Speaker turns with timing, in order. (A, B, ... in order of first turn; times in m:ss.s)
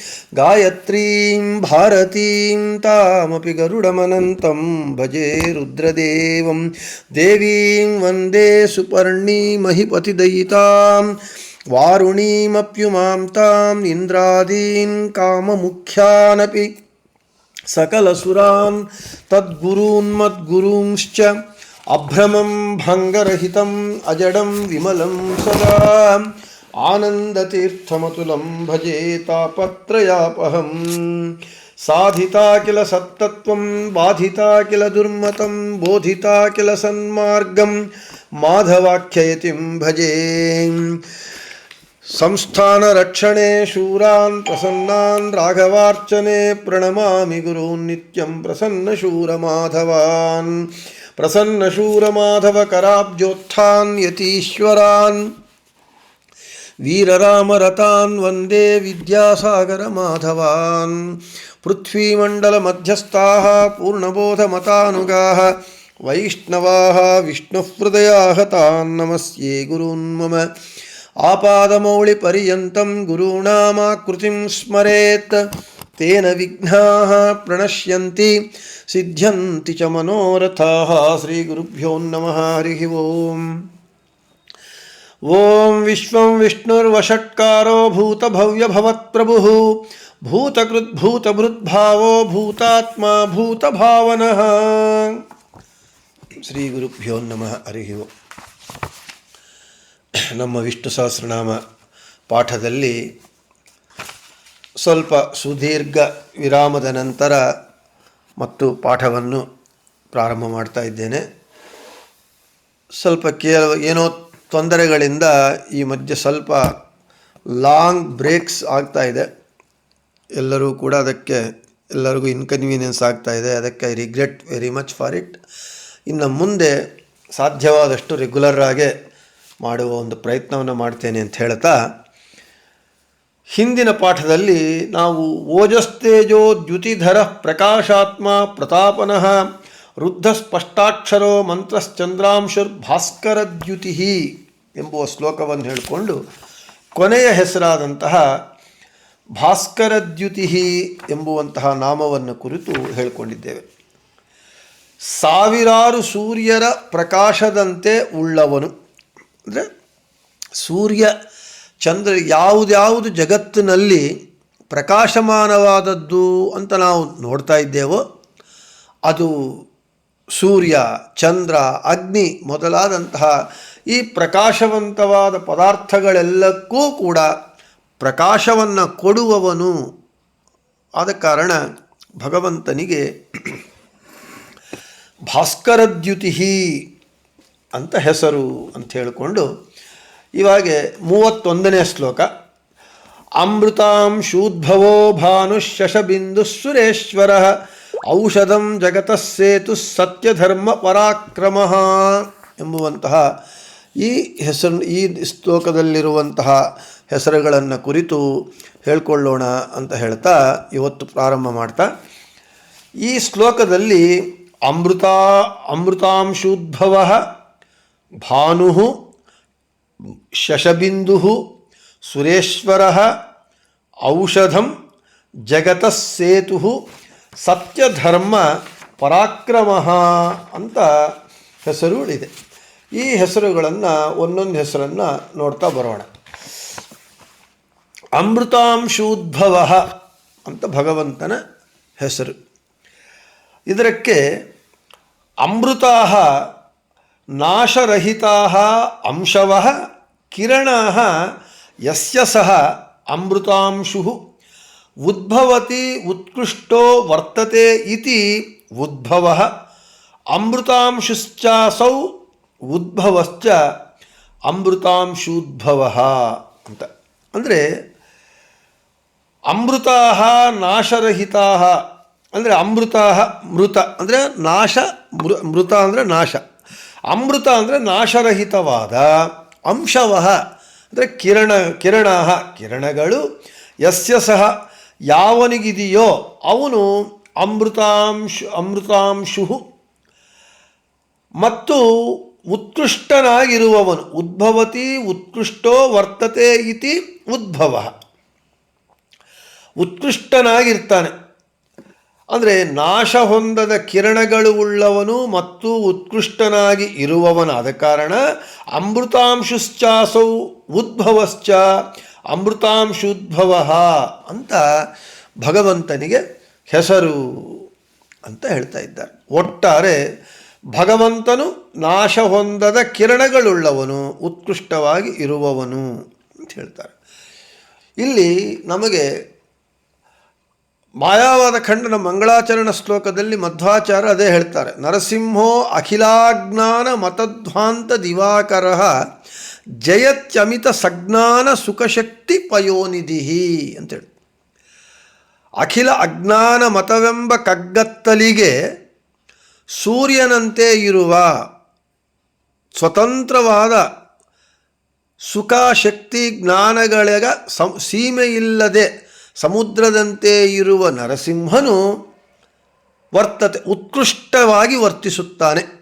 0:00.4-0:11.2 A
0:11.7-0:16.7 A
0:17.7-0:21.3 A
0:21.9-0:26.2 A
0:26.8-0:31.3 A
0:31.9-0:37.7 A
0:38.4-0:40.9 A
0:42.1-0:55.2 A
0:56.8-1:01.0 A
1:01.6-1:05.5 A
1:06.1-1:10.5 A
1:11.2-1:15.4 A
1:16.0-1:18.3 A
1:18.9-1:23.5 A
1:25.3-1:29.6 A
1:30.2-1:35.2 A
1:36.4-1:38.1 A
1:40.3-1:41.6 A
1:42.3-1:43.0 A
1:44.8-1:47.4 A
1:48.4-1:49.4 A
1:50.1-1:51.2 A
1:53.0-1:56.6 A
1:57.6-1:59.3 A
2:00.4-2:01.4 A
2:01.9-2:05.4 A
2:06.1-2:06.7 A
2:07.4-2:08.9 A
2:09.6-2:11.8 A
2:13.6-2:19.3 A
2:20.0-2:24.2 A
2:24.8-2:26.2 A
2:27.0-2:28.2 A
2:29.4-2:33.6 A
2:35.1-2:38.7 A
2:40.6-2:41.1 A
2:41.8-2:44.0 A
2:44.7-2:48.0 A
2:50.4-2:53.3 A
2:53.9-2:57.3 A
2:58.0-2:59.7 A
3:01.0-3:01.6 A
3:02.2-3:03.6 A
3:05.3-3:06.6 A
3:07.8-3:09.5 A
3:10.4-3:12.3 A
3:13.4-3:17.5 A
3:18.1-3:23.2 A
3:24.0-3:26.6 A
3:27.1-3:28.2 A
3:28.8-3:31.9 A
3:33.0-3:34.0 A
3:34.7-3:37.2 A
3:38.2-3:38.9 A
3:40.4-3:41.4 A
3:42.1-3:43.0 A
3:44.1-3:44.7 A
3:45.5-3:46.8 A
3:47.4-3:48.5 A
3:49.0-3:50.9 A
3:51.6-3:52.3 A
3:53.0-3:56.1 A
3:58.2-3:59.8 A
4:00.5-4:01.4 A
4:02.0-4:02.3 A
4:03.7-4:04.2 A
4:05.4-4:06.3 A
4:07.4-4:09.7 A
4:10.3-4:11.1 A
4:11.9-4:12.6 A
4:13.1-4:14.2 A
4:15.0-4:18.2 A
4:18.8-4:19.5 A
4:20.3-4:22.0 A
4:22.7-4:23.6 A
4:24.5-4:27.6 A
4:29.5-4:31.8 A
4:32.4-4:36.4 A
4:37.1-4:39.1 A
4:39.7-4:40.4 A
4:40.9-4:43.2 A
4:43.8-4:44.5 A
4:45.1-4:46.9 A
4:47.4-4:49.6 A
4:51.4-4:51.8 A
4:52.5-4:57.9 A
4:59.8-5:01.1 A
5:02.3-5:08.2 A
5:08.8-5:11.6 A
5:12.3-5:14.6 A
5:15.4-5:17.6 A
5:18.2-5:20.0 A
5:20.7-5:25.8 A
5:26.4-5:26.9 A
5:28.0-5:29.0 A
5:31.0-5:38.9 A
5:39.8-5:44.1 A
5:45.6-5:48.5 A
5:49.8-5:51.2 A
5:52.8-5:53.8 A
5:55.3-5:58.9 A
5:59.4-6:01.8 A
6:03.2-6:05.6 A